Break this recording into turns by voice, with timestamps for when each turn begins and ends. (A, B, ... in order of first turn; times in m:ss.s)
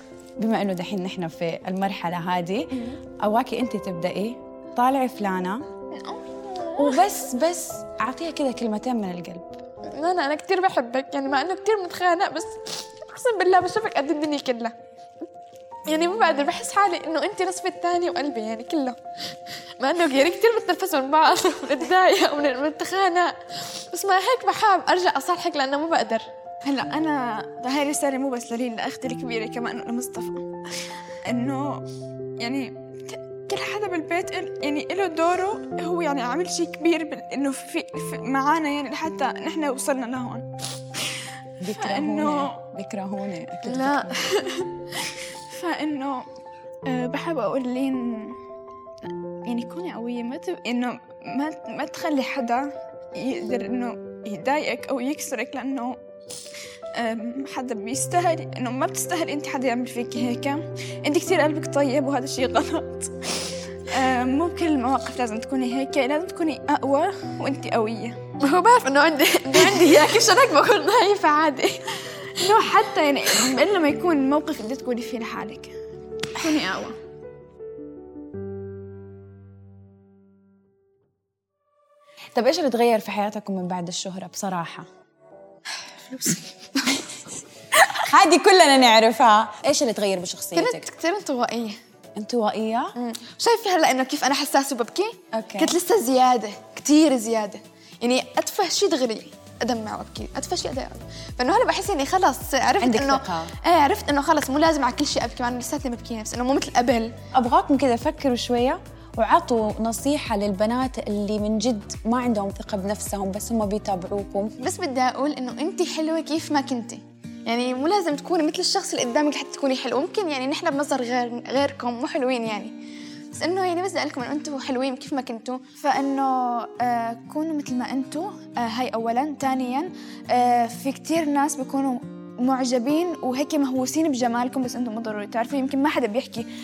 0:00.4-0:05.6 A
0:05.9-0:07.0 B
0:06.7-0:09.6 A
0:09.8-0:14.7 C
0:15.9-0:18.8 B
0:15.9-0:19.0 C
0:19.8-0:23.4 B
0:20.0-0:20.5 C
0:23.9-0:26.3 C
0:26.6-0:30.5 B
0:31.1-0:31.9 B
0:32.4-0:40.5 B
0:41.6-0:44.3 A
0:41.6-0:42.6 B
0:43.6-0:46.3 B
0:46.8-0:48.4 B
0:49.0-0:56.0 B
0:56.9-1:15.7 B
1:08.4-1:10.1 C
1:16.3-1:17.0 B
1:22.3-1:24.9 A
1:26.1-1:27.0 C
1:27.9-1:30.9 A
1:30.5-1:31.8 C
1:32.2-1:32.9 A
1:33.0-1:47.1 C
1:35.3-1:35.7 A
1:42.8-1:43.5 A
1:47.3-1:54.5 A
1:54.6-2:02.8 C
2:03.3-2:05.7 C
2:05.8-2:16.5 B